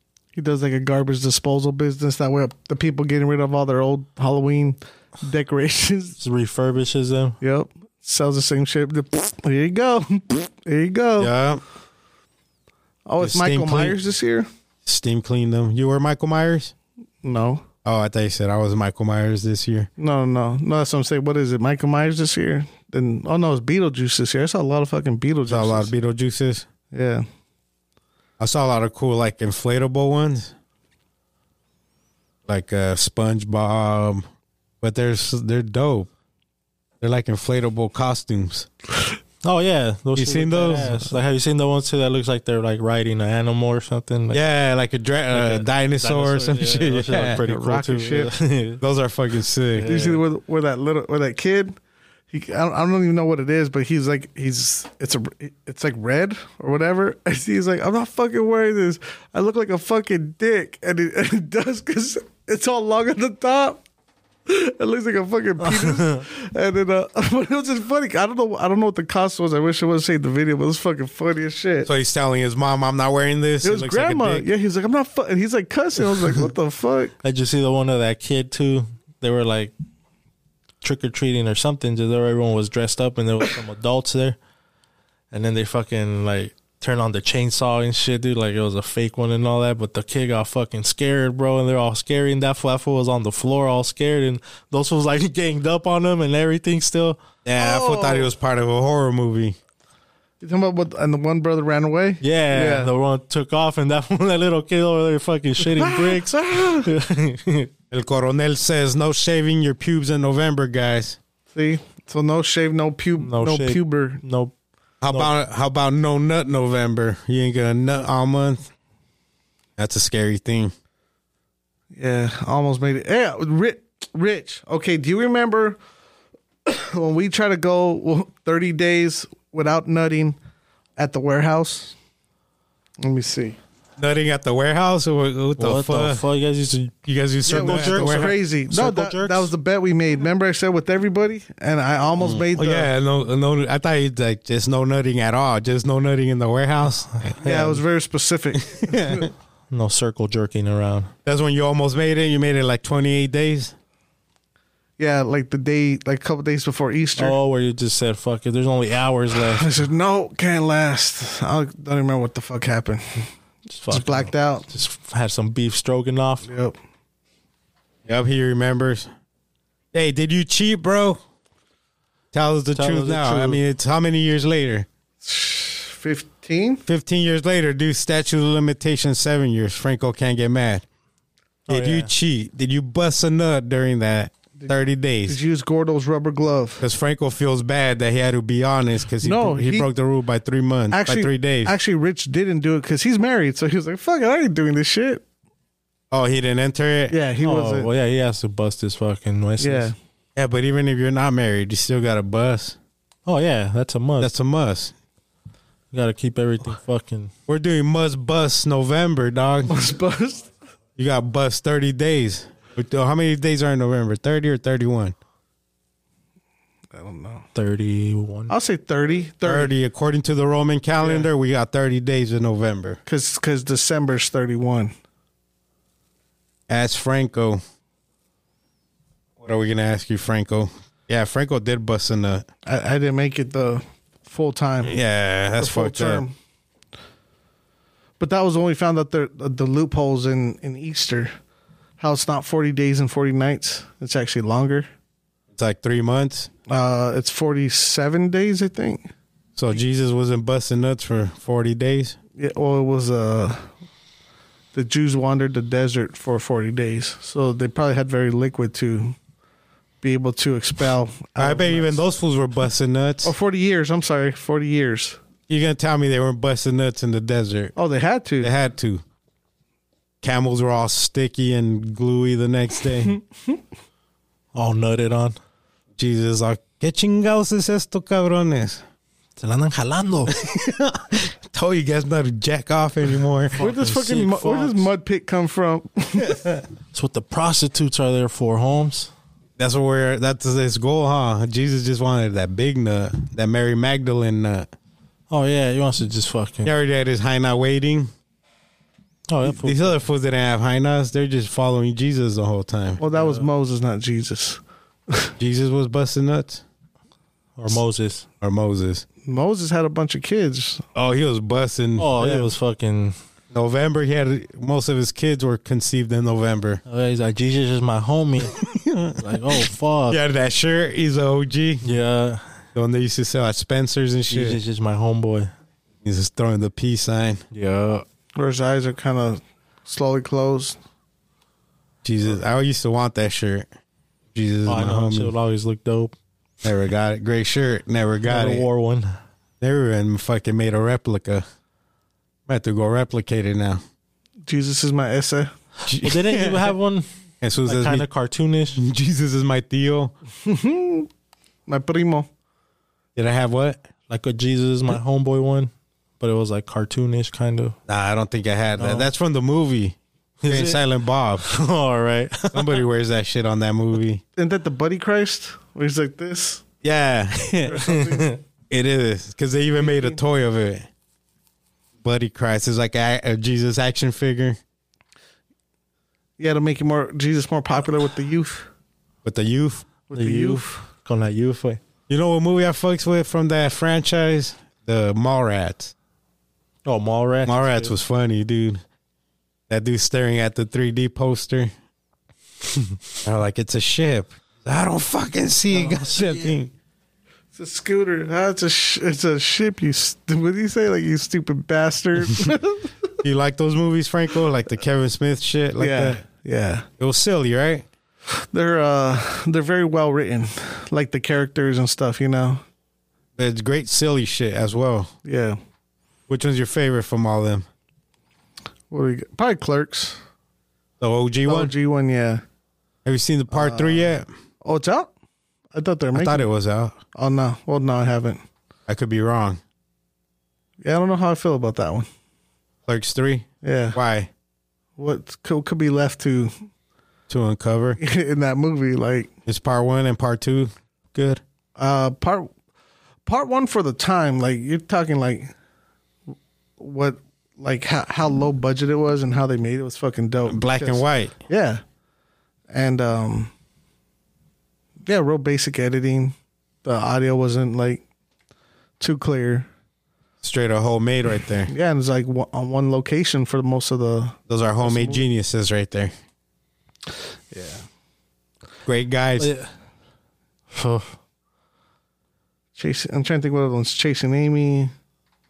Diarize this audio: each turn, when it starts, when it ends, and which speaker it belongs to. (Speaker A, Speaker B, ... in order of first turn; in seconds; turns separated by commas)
Speaker A: 0.3-6.2, Speaker B: 6.2-7.4, Speaker A: 7.4-11.3, Speaker C: 11.2-11.6, Speaker A: 13.1-14.5, Speaker C: 13.2-14.0, Speaker C: 14.8-16.7, Speaker A: 17.2-17.6, Speaker C: 17.8-19.9, Speaker A: 20.0-25.9, Speaker C: 25.5-26.7, Speaker A: 26.9-27.2, Speaker C: 28.4-30.5, Speaker C: 32.5-34.2, Speaker C: 34.8-36.1, Speaker C: 37.0-38.7, Speaker B: 39.4-44.4, Speaker C: 40.1-41.1, Speaker C: 44.3-47.4, Speaker B: 45.3-48.8, Speaker A: 47.4-48.3, Speaker C: 48.8-49.9, Speaker B: 49.7-50.2, Speaker A: 49.8-51.8, Speaker A: 52.3-63.8, Speaker A: 64.5-71.9, Speaker B: 65.6-66.2, Speaker C: 71.8-74.5, Speaker A: 73.6-77.1, Speaker B: 77.2-79.7, Speaker B: 80.8-84.4, Speaker B: 85.3-97.2, Speaker C: 97.4-99.6, Speaker A: 97.6-98.3, Speaker A: 100.4-102.9, Speaker B: 102.2-107.7, Speaker A: 105.6-106.9, Speaker C: 107.9-111.2, Speaker A: 111.5-114.2, Speaker B: 113.2-114.5, Speaker C: 115.0-118.7, Speaker B: 115.0-115.3, Speaker C: 119.8-120.7, Speaker A: 121.9-125.8, Speaker A: 126.7-130.4, Speaker A: 131.0-131.9, Speaker A: 133.0-133.6, Speaker C: 134.0-136.2, Speaker B: 135.6-139.5, Speaker C: 137.1-138.3, Speaker A: 137.5-142.9, Speaker C: 142.2-147.3, Speaker B: 147.2-147.8, Speaker A: 147.4-149.3, Speaker C: 148.7-149.3, Speaker B: 149.7-151.1, Speaker C: 151.2-153.7, Speaker A: 155.0-157.4, Speaker B: 157.2-159.8, Speaker A: 159.3-163.3, Speaker B: 163.7-166.5, Speaker A: 163.9-164.7, Speaker A: 166.4-166.8, Speaker C: 168.1-169.1, Speaker C: 169.9-171.2, Speaker C: 172.3-174.9, Speaker B: 172.7-173.6, Speaker A: 175.2-176.8, Speaker C: 176.9-180.8, Speaker B: 181.7-182.1, Speaker C: 181.7-185.4, Speaker A: 185.3-186.8, Speaker C: 186.8-191.7, Speaker A: 189.2-189.9, Speaker A: 190.9-195.2, Speaker C: 196.1-197.2, Speaker A: 197.1-197.9, Speaker B: 197.4-199.9, Speaker A: 199.6-199.9, Speaker C: 200.3-202.8, Speaker B: 203.2-204.3, Speaker C: 204.2-204.9, Speaker B: 205.9-207.3, Speaker C: 207.5-209.7, Speaker A: 209.7-210.5, Speaker C: 211.0-215.1, Speaker A: 216.9-217.5, Speaker B: 217.5-218.5, Speaker A: 218.5-219.7, Speaker C: 219.4-223.0, Speaker A: 221.0-221.3, Speaker A: 223.1-224.9, Speaker C: 226.7-227.6, Speaker C: 229.4-232.5, Speaker A: 232.7-235.0, Speaker C: 234.8-236.2, Speaker A: 235.6-236.3, Speaker A: 238.2-241.3, Speaker A: 242.0-244.9, Speaker C: 245.5-246.5, Speaker A: 246.7-249.1, Speaker C: 249.6-252.2, Speaker A: 252.4-253.7, Speaker A: 254.7-259.1, Speaker A: 260.0-262.0, Speaker C: 261.4-263.3, Speaker A: 263.2-265.2, Speaker C: 265.5-267.7, Speaker A: 267.8-268.5, Speaker C: 268.4-269.0, Speaker C: 270.2-273.2, Speaker B: 274.5-275.4, Speaker C: 276.0-278.8, Speaker B: 279.4-280.4, Speaker C: 280.3-283.6, Speaker B: 283.5-284.9, Speaker A: 283.6-286.4, Speaker B: 286.9-289.1, Speaker C: 289.6-294.7, Speaker B: 295.3-296.7, Speaker C: 296.6-298.1, Speaker B: 299.3-300.0, Speaker C: 299.5-303.0, Speaker A: 303.0-305.3, Speaker B: 303.1-303.5, Speaker C: 305.4-306.6, Speaker B: 307.6-308.2, Speaker C: 308.4-309.0, Speaker A: 309.2-310.9, Speaker C: 310.9-312.4, Speaker B: 312.0-313.1, Speaker C: 313.5-316.8, Speaker B: 316.9-318.6, Speaker C: 318.4-321.9, Speaker B: 319.2-320.2, Speaker B: 321.8-322.6, Speaker C: 322.7-324.6, Speaker B: 324.3-325.5, Speaker C: 326.0-327.4, Speaker B: 327.5-328.0, Speaker A: 328.4-330.8, Speaker C: 332.0-333.7, Speaker C: 334.3-335.3, Speaker B: 334.6-336.1, Speaker C: 336.6-338.6, Speaker B: 338.2-339.1, Speaker C: 339.6-341.4, Speaker C: 342.5-343.8, Speaker A: 344.5-345.5, Speaker C: 345.9-346.7, Speaker B: 345.9-347.1, Speaker C: 347.4-348.1, Speaker B: 347.6-348.8, Speaker C: 348.7-350.1, Speaker A: 350.4-351.1, Speaker A: 351.7-352.3, Speaker C: 353.1-353.8, Speaker B: 354.1-357.8, Speaker C: 357.9-361.5, Speaker B: 358.8-359.1, Speaker B: 360.4-360.8, Speaker B: 361.4-362.8, Speaker C: 362.5-364.2, Speaker A: 364.4-366.6, Speaker C: 366.8-367.8, Speaker A: 367.6-368.4, Speaker B: 367.9-368.4, Speaker C: 368.7-370.9, Speaker A: 369.8-370.2, Speaker C: 372.0-374.6, Speaker A: 376.4-378.7, Speaker C: 379.2-379.9, Speaker A: 380.1-380.8, Speaker B: 380.1-381.8, Speaker C: 382.1-385.9, Speaker B: 386.8-387.9, Speaker C: 387.4-388.8, Speaker C: 389.7-391.7, Speaker C: 393.2-396.7, Speaker A: 395.7-396.0, Speaker A: 397.5-402.9, Speaker C: 403.2-406.2, Speaker A: 405.8-406.9, Speaker C: 407.0-407.9, Speaker A: 408.5-412.6, Speaker C: 413.4-415.1, Speaker A: 415.2-415.6, Speaker C: 416.3-417.7, Speaker A: 418.9-420.2, Speaker C: 421.0-421.7, Speaker A: 421.4-422.4, Speaker C: 423.0-424.3, Speaker A: 423.5-425.1, Speaker A: 425.7-426.5, Speaker C: 426.1-427.0, Speaker A: 427.1-428.4, Speaker C: 428.9-429.6, Speaker A: 430.8-432.1, Speaker C: 432.9-434.3, Speaker A: 433.6-434.0, Speaker A: 435.0-436.5, Speaker C: 437.3-438.0, Speaker A: 438.0-439.3, Speaker C: 439.4-441.4, Speaker A: 441.8-442.5, Speaker A: 443.2-445.5, Speaker A: 446.8-451.8, Speaker C: 450.5-451.3, Speaker A: 452.7-453.5, Speaker A: 455.1-458.0, Speaker A: 459.0-459.7, Speaker C: 460.4-461.7, Speaker A: 461.7-465.2, Speaker C: 464.5-466.1, Speaker A: 467.5-467.9, Speaker C: 468.8-469.5, Speaker B: 469.4-469.7, Speaker B: 470.7-471.1, Speaker A: 472.8-474.9